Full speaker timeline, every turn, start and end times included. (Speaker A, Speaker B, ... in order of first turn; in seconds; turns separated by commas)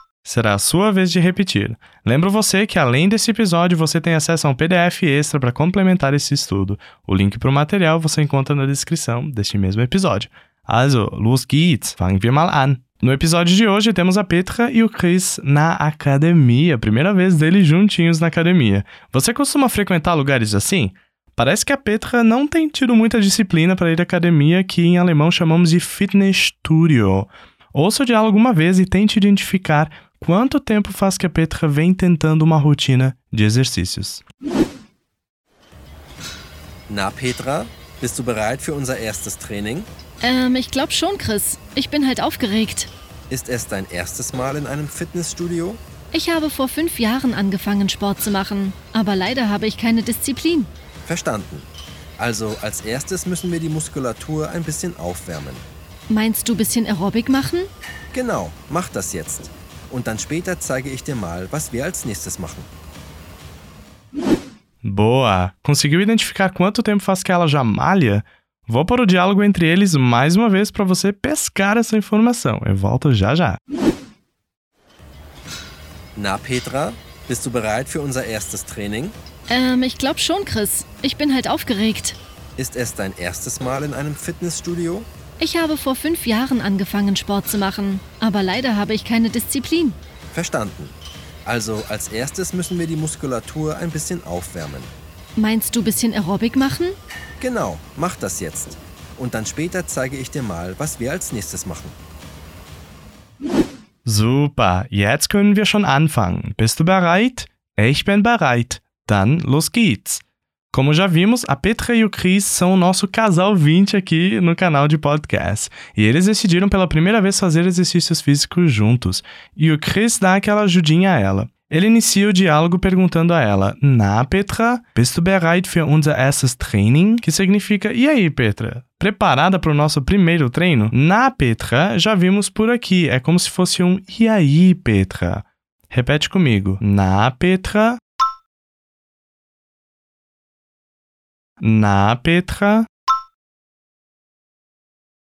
Speaker A: 0.2-34.2, Speaker B: 36.9-39.9, Speaker C: 40.2-42.9, Speaker B: 43.3-45.8, Speaker C: 46.1-50.7, Speaker B: 51.1-55.6, Speaker C: 56.1-57.7, Speaker B: 58.1-62.7, Speaker A: 64.8-73.6, Speaker B: 76.2-79.2, Speaker C: 79.5-82.2, Speaker B: 82.6-85.1, Speaker C: 85.4-90.0, Speaker B: 90.3-94.9, Speaker C: 95.4-97.0, Speaker B: 97.4-102.0, Speaker A: 104.1-138.0, Speaker A: 141.6-142.9